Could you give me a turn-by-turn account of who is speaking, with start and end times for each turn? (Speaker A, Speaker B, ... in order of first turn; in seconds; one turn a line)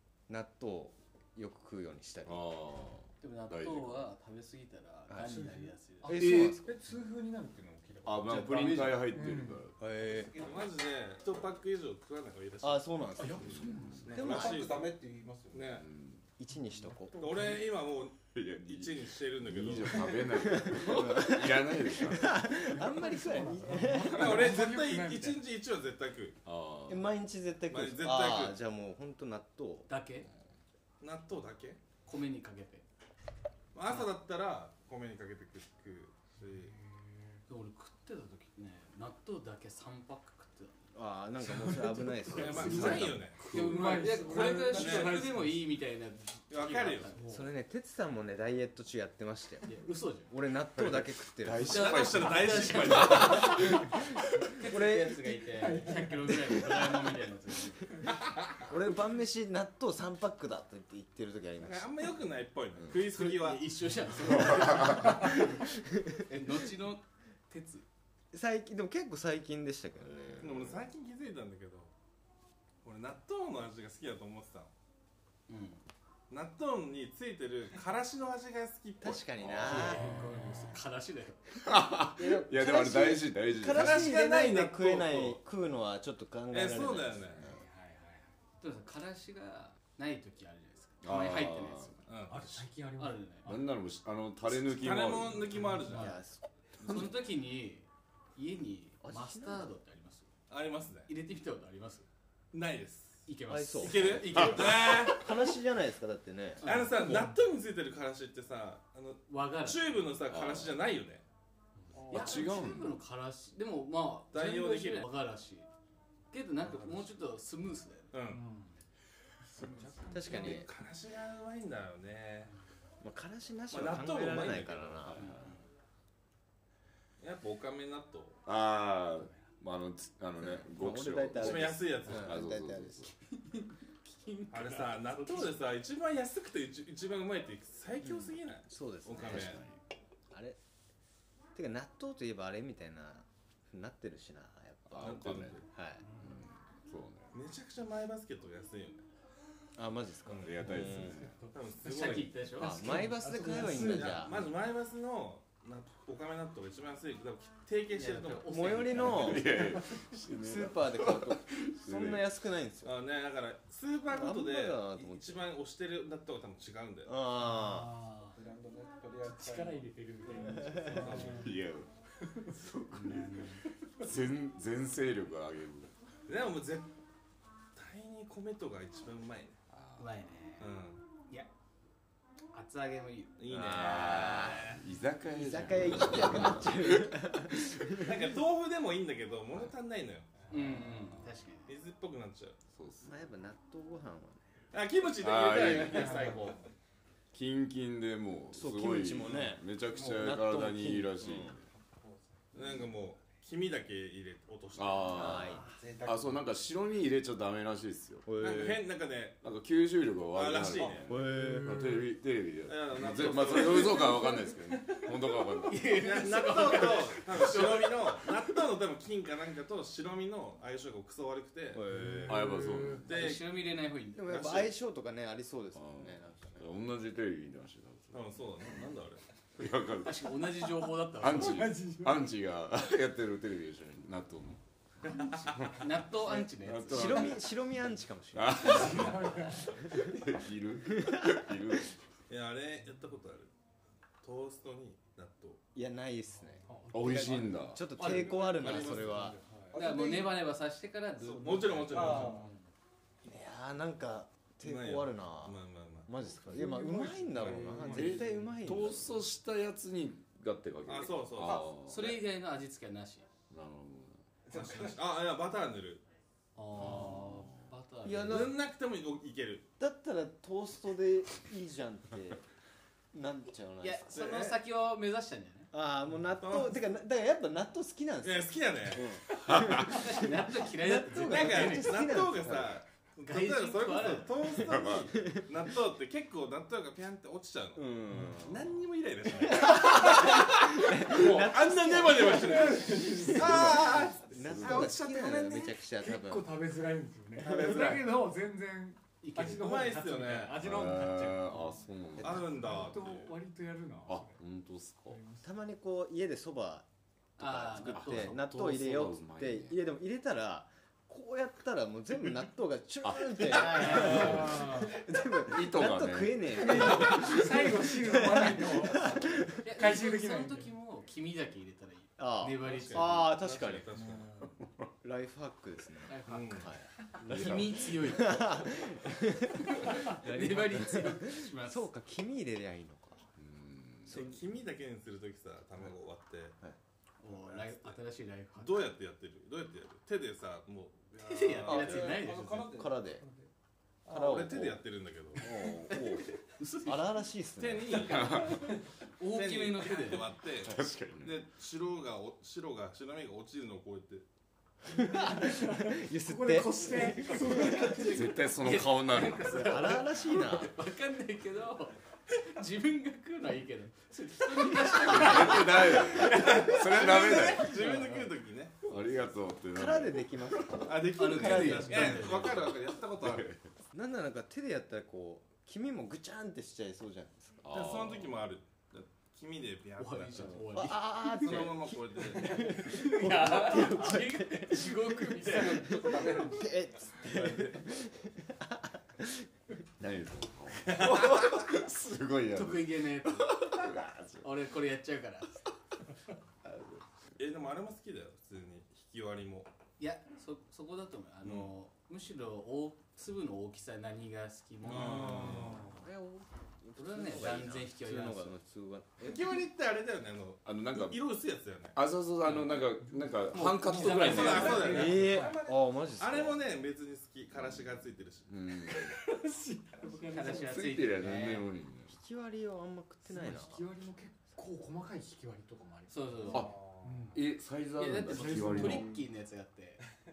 Speaker A: 0.3-2.5
Speaker B: 2.3-4.1
Speaker C: 3.2-6.2
Speaker A: 5.1-5.4
Speaker D: 5.2-8.5
Speaker A: 6.0-6.7
Speaker B: 6.2-6.5
Speaker B: 8.1-9.8
Speaker C: 8.2-9.2
Speaker D: 9.1-9.7
Speaker A: 9.8-10.3
Speaker E: 10.1-10.7
Speaker F: 10.4-13.4
Speaker A: 12.6-14.7
Speaker D: 13.2-14.6
Speaker B: 13.4-14.1
Speaker E: 14.0-15.8
Speaker F: 14.1-14.9
Speaker F: 15.5-15.9
Speaker B: 15.8-16.2
Speaker A: 16.4-17.4
Speaker D: 16.7-17.8
Speaker F: 17.2-20.6
Speaker B: 18.3-22.6
Speaker A: 20.4-24.5
Speaker D: 22.6-25.4
Speaker F: 23.9-26.4
Speaker B: 26.4-27.1
Speaker A: 26.9-29.9
Speaker F: 27.7-28.6
Speaker C: 29.9-30.3
Speaker F: 31.0-31.8
Speaker C: 32.1-32.9
Speaker F: 33.7-36.7
Speaker D: 36.6-37.4
Speaker C: 37.5-40.9
Speaker A: 40.9-43.2
Speaker D: 41.7-45.7
Speaker F: 42.3-43.4
Speaker B: 42.6-43.9
Speaker C: 43.4-47.3
Speaker F: 44.7-45.4
Speaker F: 46.5-47.1
Speaker D: 47.1-47.5
Speaker A: 47.2-49.7
Speaker C: 49.6-50.3
Speaker A: 50.3-52.2
Speaker B: 50.8-54.0
Speaker C: 51.6-53.9
Speaker F: 51.7-53.6
Speaker C: 54.5-58.1
Speaker A: 54.6-55.4
Speaker D: 55.6-56.6
Speaker A: 58.7-62.0
Speaker F: 61.6-63.7
Speaker C: 63.1-65.6
Speaker B: 64.4-65.1
Speaker C: 66.2-67.9
Speaker A: 68.3-70.7
Speaker B: 70.0-70.8
Speaker F: 70.4-71.9
Speaker F: 72.8-74.7
Speaker C: 75.5-75.8
Speaker F: 76.3-79.6
Speaker A: 79.0-80.1
Speaker B: 79.4-80.0
Speaker C: 79.6-81.4
Speaker D: 80.0-80.6
Speaker B: 81.6-84.1
Speaker A: 82.2-87.6
Speaker F: 83.7-85.4
Speaker F: 86.5-87.5
Speaker D: 87.4-88.3
Speaker C: 88.6-92.1
Speaker B: 91.0-92.0
Speaker F: 92.1-92.7
Speaker D: 92.3-93.6
Speaker C: 93.0-93.6
Speaker B: 93.5-95.6
Speaker F: 94.4-96.2
Speaker D: 95.6-96.2
Speaker A: 95.9-97.0
Speaker B: 96.8-97.2
Speaker C: 96.8-100.3
Speaker A: 99.0-99.7
Speaker F: 100.5-101.1
Speaker C: 101.1-102.1
Speaker F: 102.5-105.3
Speaker C: 103.3-105.0
Speaker A: 103.5-106.7
Speaker B: 104.4-105.0
Speaker C: 106.6-107.4
Speaker F: 106.6-111.2
Speaker C: 109.3-109.9
Speaker B: 110.3-110.8
Speaker B: 112.1-113.0
Speaker C: 112.1-115.7
Speaker F: 114.3-115.1
Speaker C: 116.3-118.2
Speaker D: 116.7-117.1
Speaker F: 118.1-118.4
Speaker D: 118.3-118.8
Speaker D: 119.5-120.6
Speaker A: 120.1-120.7
Speaker F: 120.1-122.5
Speaker A: 123.0-125.3
Speaker F: 123.7-125.1
Speaker B: 125.0-125.5
Speaker C: 125.2-125.6
Speaker F: 127.2-128.4
Speaker B: 128.5-133.1
Speaker A: 130.4-133.1
Speaker F: 131.3-132.4
Speaker C: 134.0-135.5
Speaker F: 134.5-139.6
Speaker A: 138.0-139.6
Speaker B: 139.2-139.8
Speaker A: 140.3-140.6
Speaker A: 141.6-146.1
Speaker B: 144.9-145.6
Speaker F: 144.9-145.7
Speaker B: 146.2-147.4
Speaker F: 147.3-149.1
Speaker A: 149.8-151.3
Speaker F: 150.3-150.8
Speaker B: 150.4-151.4
Speaker D: 151.4-154.2
Speaker F: 151.5-152.4
Speaker C: 151.8-153.1
Speaker A: 152.6-154.5
Speaker F: 153.5-158.6
Speaker C: 157.9-159.6
Speaker A: 158.5-162.9
Speaker B: 158.9-162.3
Speaker F: 162.8-167.1
Speaker A: 164.1-165.5
Speaker A: 167.1-167.9
Speaker D: 167.4-168.3
Speaker E: 168.3-171.4
Speaker D: 169.2-171.6
Speaker F: 170.9-171.5
Speaker B: 171.3-171.9
Speaker D: 172.3-172.6
Speaker B: 172.5-175.9
Speaker C: 172.9-173.6
Speaker F: 176.3-176.9
Speaker F: 177.8-179.6
Speaker B: 179.7-180.4
Speaker C: 180.0-180.7
Speaker F: 180.6-181.0
Speaker C: 182.5-183.4
Speaker F: 183.4-184.8
Speaker A: 183.5-188.3
Speaker B: 183.6-187.8
Speaker F: 188.0-190.5
Speaker C: 190.5-191.7
Speaker F: 191.7-192.6
Speaker B: 192.7-193.3
Speaker A: 193.0-194.4
Speaker F: 194.7-196.6
Speaker B: 195.2-196.3
Speaker B: 197.3-201.6
Speaker A: 198.5-201.5
Speaker E: 201.8-202.3
Speaker F: 202.5-205.5
Speaker B: 204.8-208.7
Speaker A: 205.1-205.7
Speaker E: 205.7-206.5
Speaker A: 208.3-208.8
Speaker F: 208.4-209.4
Speaker B: 209.4-215.9
Speaker F: 210.3-211.1
Speaker E: 210.8-211.1
Speaker A: 211.1-211.9
Speaker D: 211.3-212.1
Speaker F: 212.7-214.2
Speaker C: 213.9-214.2
Speaker C: 215.3-218.3
Speaker F: 215.9-221.9
Speaker A: 221.8-222.4
Speaker D: 221.9-223.1
Speaker B: 222.3-223.2
Speaker C: 223.0-224.7
Speaker F: 223.1-223.4
Speaker A: 224.2-226.7
Speaker F: 224.3-224.7
Speaker B: 225.7-228.7
Speaker F: 228.1-229.2
Speaker B: 229.6-230.4
Speaker C: 230.0-231.7
Speaker B: 231.2-234.6
Speaker D: 231.4-232.4
Speaker C: 235.2-237.4
Speaker B: 235.5-237.5
Speaker A: 236.3-240.2
Speaker B: 238.3-241.9
Speaker D: 238.9-239.6
Speaker A: 240.9-241.5
Speaker F: 242.3-243.5
Speaker F: 244.2-245.6
Speaker A: 245.8-249.4
Speaker D: 246.7-247.5
Speaker B: 246.9-247.9
Speaker F: 247.9-249.5
Speaker C: 247.9-252.5
Speaker D: 248.9-249.2
Speaker E: 249.6-250.4
Speaker F: 251.2-252.4
Speaker E: 251.9-252.5
Speaker A: 253.2-259.1
Speaker F: 254.6-256.1
Speaker D: 256.5-258.1
Speaker F: 257.3-258.2
Speaker E: 257.7-258.0
Speaker B: 257.9-262.2
Speaker F: 260.9-261.7
Speaker C: 261.8-263.3
Speaker B: 263.5-264.2
Speaker E: 264.5-265.1
Speaker F: 264.5-266.0
Speaker C: 266.6-268.5
Speaker B: 266.8-267.5
Speaker A: 268.0-268.6
Speaker F: 268.3-269.7
Speaker A: 269.8-272.4
Speaker A: 273.1-274.6
Speaker C: 273.8-275.7
Speaker F: 274.2-274.5
Speaker A: 275.7-282.8
Speaker F: 276.4-276.9
Speaker F: 278.2-279.1
Speaker B: 279.4-280.0
Speaker C: 279.8-282.1
Speaker F: 281.1-295.3
Speaker C: 283.2-284.4
Speaker A: 284.4-285.4
Speaker B: 284.6-285.1
Speaker A: 287.8-288.8
Speaker D: 288.1-288.4
Speaker A: 289.4-296.6
Speaker D: 292.3-304.4
Speaker B: 293.4-294.9
Speaker A: 297.4-298.0
Speaker C: 299.2-299.8
Speaker F: 299.4-300.7
Speaker B: 300.6-303.0
Speaker F: 302.2-303.4
Speaker B: 304.1-305.2
Speaker D: 305.1-305.5
Speaker A: 305.4-306.9
Speaker C: 307.4-308.4
Speaker A: 307.4-319.6
Speaker B: 307.7-309.8
Speaker B: 313.0-314.7
Speaker C: 313.5-314.9
Speaker D: 313.9-314.8
Speaker B: 315.5-317.6
Speaker D: 316.6-320.7
Speaker C: 319.6-323.4
Speaker A: 322.2-323.9
Speaker F: 322.6-324.5
Speaker A: 325.0-333.2
Speaker C: 326.1-328.8
Speaker F: 326.3-326.7
Speaker B: 327.2-328.0
Speaker C: 329.7-331.9
Speaker B: 333.4-334.2
Speaker F: 334.1-336.6
Speaker A: 334.1-334.4
Speaker C: 337.2-338.9
Speaker F: 337.2-338.0
Speaker F: 338.6-342.2
Speaker C: 341.2-342.8
Speaker E: 341.4-343.5
Speaker A: 342.7-343.2
Speaker F: 344.1-345.5
Speaker A: 344.1-344.8
Speaker A: 345.4-348.3
Speaker C: 345.4-347.2
Speaker F: 347.6-354.3
Speaker B: 348.0-348.6
Speaker C: 348.2-348.5
Speaker C: 349.2-350.3
Speaker B: 350.6-351.4
Speaker A: 354.9-357.8
Speaker D: 355.0-358.4
Speaker C: 357.3-368.3
Speaker B: 358.0-359.5
Speaker A: 359.5-360.7
Speaker B: 365.0-367.8
Speaker F: 366.0-369.0
Speaker B: 368.8-370.9
Speaker A: 369.7-372.5
Speaker F: 370.9-373.5
Speaker C: 371.1-372.7
Speaker B: 373.2-373.6
Speaker A: 373.9-377.6
Speaker B: 377.6-378.4
Speaker F: 377.7-382.9
Speaker C: 380.0-381.7
Speaker A: 380.7-389.5
Speaker C: 382.2-386.5
Speaker F: 387.2-387.9
Speaker B: 390.0-394.5
Speaker F: 390.9-391.5
Speaker C: 392.5-393.9
Speaker C: 394.4-395.6
Speaker B: 396.7-396.9
Speaker F: 397.4-399.7
Speaker C: 400.0-405.9
Speaker F: 401.4-401.7
Speaker F: 404.9-405.9
Speaker D: 405.0-405.9
Speaker A: 405.6-409.6
Speaker C: 406.9-408.6
Speaker F: 409.2-412.0
Speaker B: 410.6-411.2
Speaker B: 411.9-415.0
Speaker C: 412.4-412.9
Speaker C: 413.5-415.4
Speaker D: 413.8-415.6
Speaker F: 414.1-418.5
Speaker A: 414.7-416.8
Speaker B: 417.5-419.2
Speaker D: 418.9-421.1
Speaker C: 420.3-421.7
Speaker B: 420.5-422.2
Speaker A: 422.1-423.9
Speaker D: 423.2-427.4
Speaker C: 426.1-426.7
Speaker B: 427.3-429.1
Speaker C: 428.0-430.0
Speaker D: 428.3-429.1